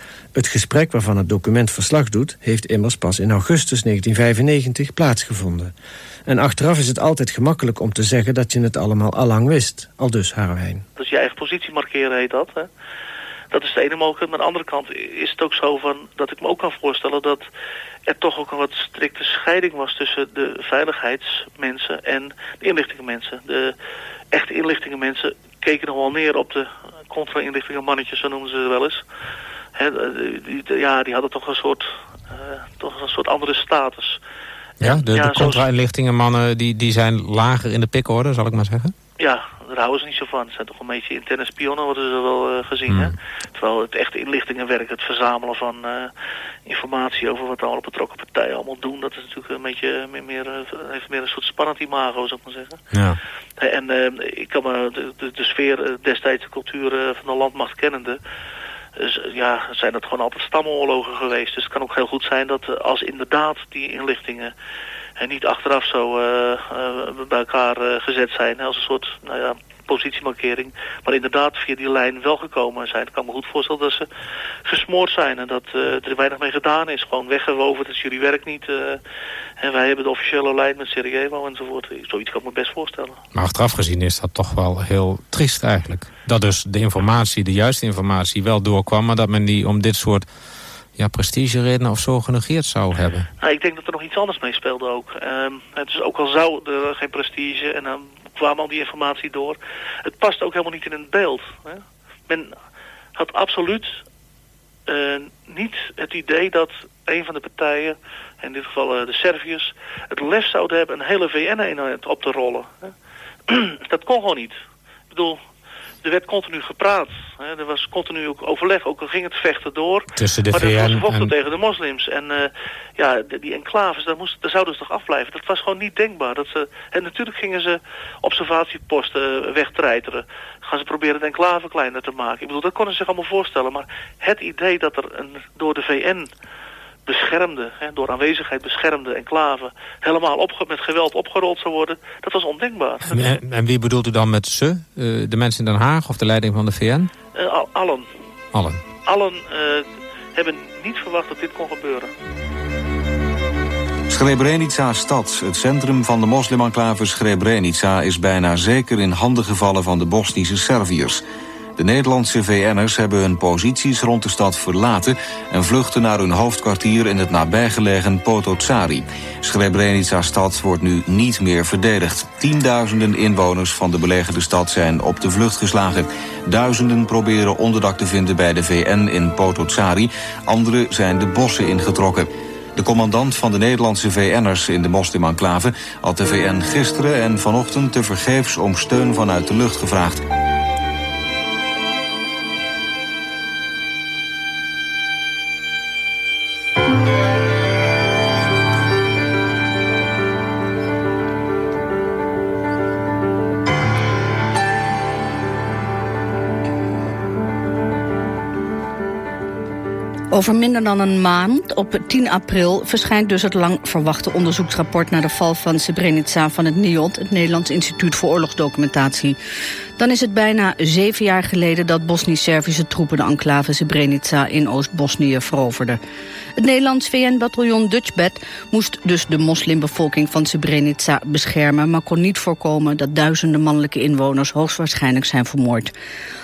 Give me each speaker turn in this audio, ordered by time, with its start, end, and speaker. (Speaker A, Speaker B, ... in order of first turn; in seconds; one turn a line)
Speaker A: 0.3-5.7
Speaker A: 6.2-10.8
Speaker B: 11.0-12.7
Speaker B: 13.5-17.5
Speaker B: 18.1-23.7
Speaker B: 24.3-29.0
Speaker B: 29.8-34.2
Speaker C: 34.8-38.9
Speaker B: 34.8-35.6
Speaker B: 39.2-46.1
Speaker C: 42.9-43.1
Speaker B: 46.6-52.8
Speaker C: 52.9-53.2
Speaker B: 53.6-58.2
Speaker B: 59.0-64.5
Speaker B: 65.2-74.1
Speaker B: 74.6-79.0
Speaker B: 79.6-83.2
Speaker C: 83.3-90.2
Speaker C: 91.0-93.3
Speaker B: 93.4-102.5
Speaker B: 103.2-104.0
Speaker B: 104.9-112.9
Speaker B: 113.5-114.5
Speaker B: 115.1-115.4
Speaker B: 116.0-136.3
Speaker C: 120.2-121.3
Speaker B: 137.1-143.3
Speaker C: 143.1-147.1
Speaker B: 147.3-148.1
Speaker C: 148.5-148.8
Speaker B: 149.0-152.1
Speaker D: 154.1-161.2
Speaker D: 161.8-190.2
Speaker E: 210.3-219.4
Speaker E: 220.0-226.0
Speaker E: 226.6-235.9